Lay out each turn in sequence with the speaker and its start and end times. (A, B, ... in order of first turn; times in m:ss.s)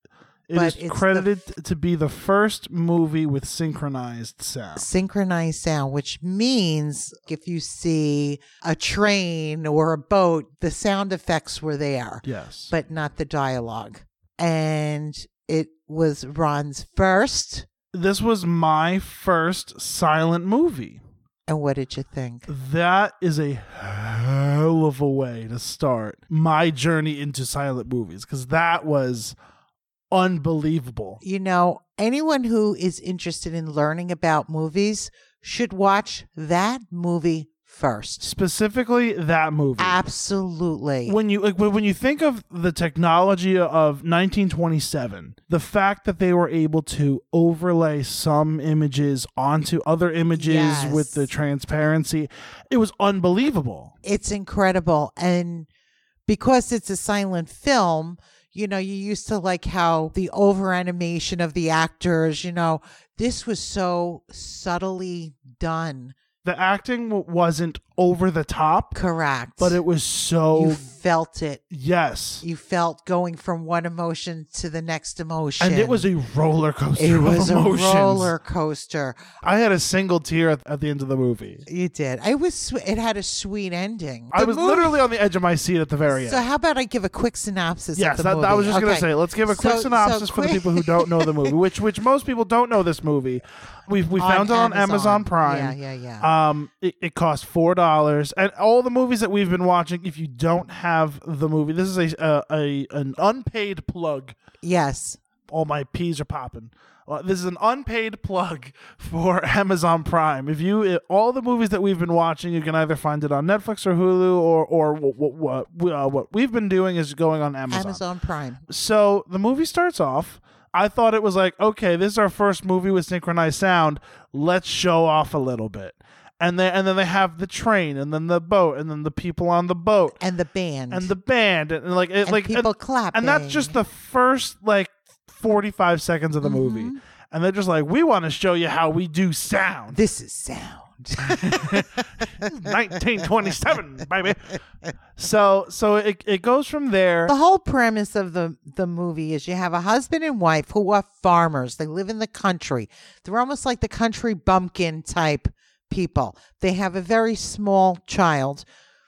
0:00.5-0:04.8 A
0:00.5-0:01.4 B
0:04.8-0:17.7 B
0:12.2-0:12.7 A
0:17.9-0:21.0 A
0:21.5-0:22.5 B
0:22.5-0:29.3 A
0:30.1-0:31.2 A
0:31.2-0:38.3 B
0:38.2-0:40.0 A
0:39.8-0:41.2 B
0:41.1-0:53.9 A
0:50.4-0:51.3 B
0:54.0-0:55.7 B
0:56.3-1:06.2 B
1:06.4-1:09.0 A
1:08.9-1:09.8 B
1:09.6-1:10.8 A
1:10.5-1:11.6 B
1:11.7-1:12.4 A
1:12.4-1:16.1 B
1:15.6-1:18.3 A
1:17.0-1:19.3 B
1:19.4-1:21.6 A
1:21.7-1:25.0 B
1:24.3-1:26.4 A
1:26.1-1:31.5 B
1:27.9-1:44.4 A
1:34.2-1:36.3 B
1:44.6-1:45.2 B
1:45.5-1:58.0 A
1:57.7-1:58.6 B
1:58.7-2:10.2 A
2:10.2-2:11.1 B
2:10.9-2:20.0 A
2:12.2-2:13.8 B
2:16.4-2:17.0 B
2:19.9-2:22.7 B
2:21.2-2:24.5 A
2:25.2-2:27.3 A
2:27.3-2:38.6 B